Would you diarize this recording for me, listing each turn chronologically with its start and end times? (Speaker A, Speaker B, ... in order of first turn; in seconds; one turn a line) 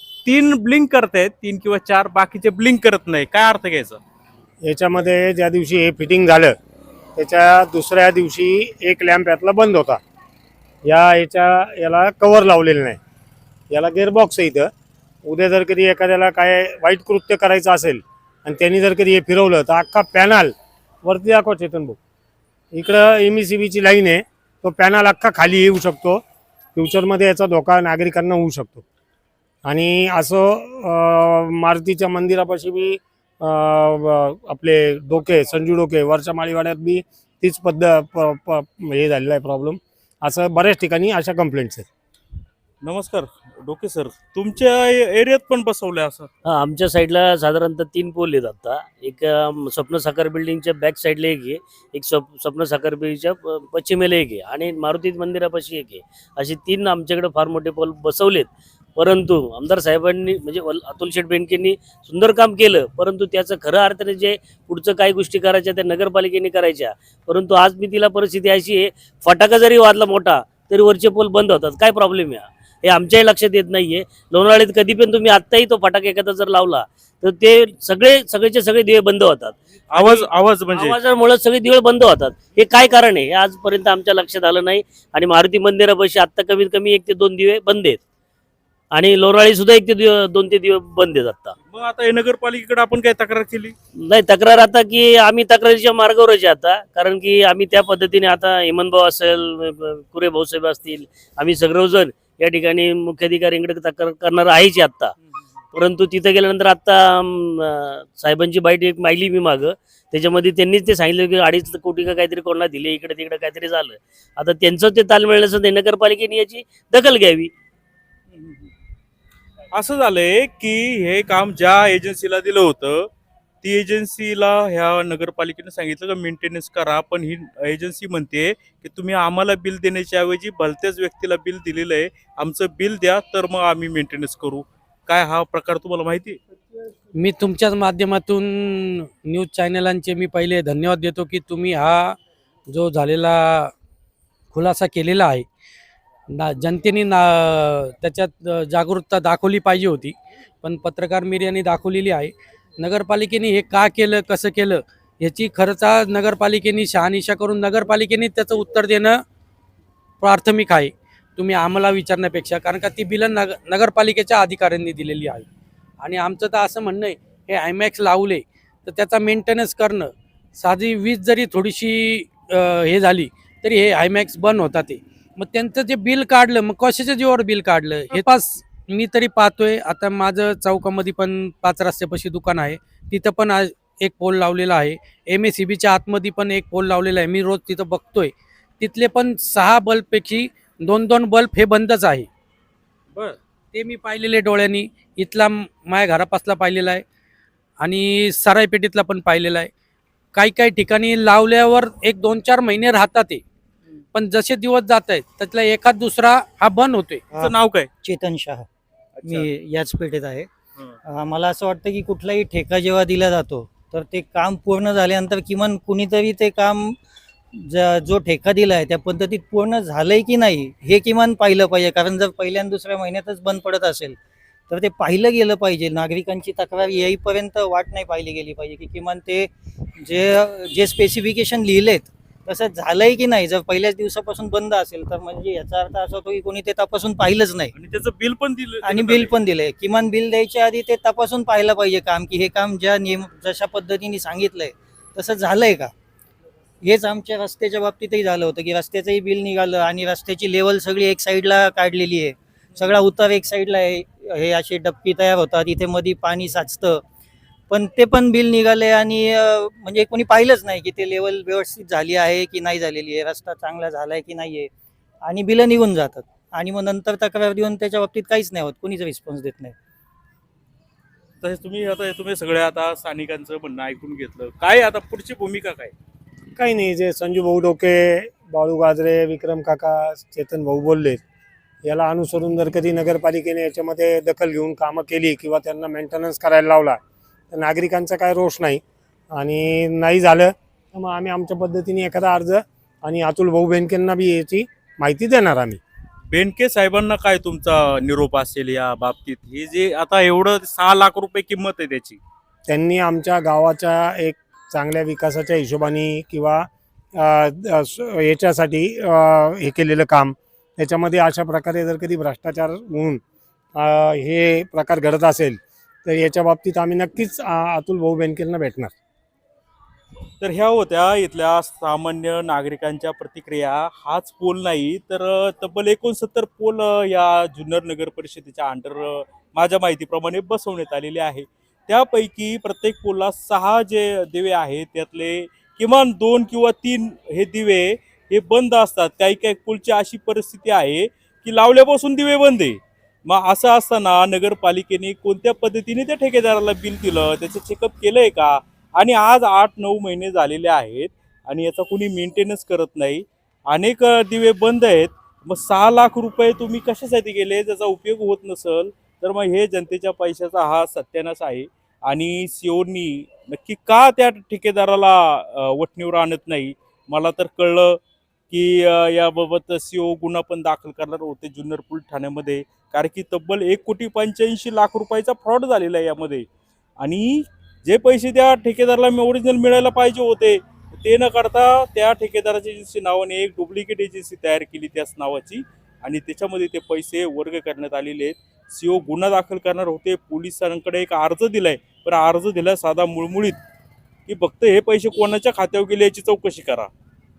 Speaker A: 0.2-4.0
Speaker B: 4.6-6.5
Speaker B: 7.2-10.0
Speaker B: 10.8-13.0
Speaker B: 13.7-14.7
Speaker B: 15.2-22.0
Speaker B: 22.7-26.2
Speaker B: 26.8-28.8
Speaker B: 29.6-41.9
Speaker A: 42.8-46.3
Speaker C: 46.4-88.0
Speaker A: 79.9-81.0
Speaker C: 88.9-91.5
Speaker A: 91.7-93.8
Speaker C: 94.0-105.2
Speaker C: 105.7-117.5
Speaker A: 119.7-123.1
Speaker A: 123.6-136.4
Speaker D: 137.2-143.7
Speaker D: 144.5-145.5
Speaker D: 146.3-159.2
Speaker D: 160.2-165.5
Speaker D: 166.0-192.3
Speaker D: 193.7-197.0
Speaker D: 197.8-199.7
Speaker D: 200.3-203.4
Speaker D: 204.1-207.2
Speaker E: 207.3-208.7
Speaker A: 207.3-207.9
Speaker A: 209.2-209.5
Speaker E: 209.3-210.5
Speaker E: 211.1-216.9
Speaker E: 217.5-224.2
Speaker E: 224.7-237.7
Speaker A: 237.7-239.3
Speaker E: 238.8-245.9
Speaker E: 246.8-257.0
Speaker E: 257.7-264.7
Speaker E: 265.2-269.8
Speaker A: 271.4-275.9
Speaker B: 276.6-281.2
Speaker B: 281.8-287.0
Speaker B: 287.5-288.8
Speaker B: 289.4-295.8
Speaker A: 296.3-302.2
Speaker B: 302.7-313.2
Speaker B: 313.8-318.9
Speaker A: 320.4-368.0
Speaker A: 368.5-376.5
Speaker A: 377.0-393.6
Speaker A: 394.3-396.9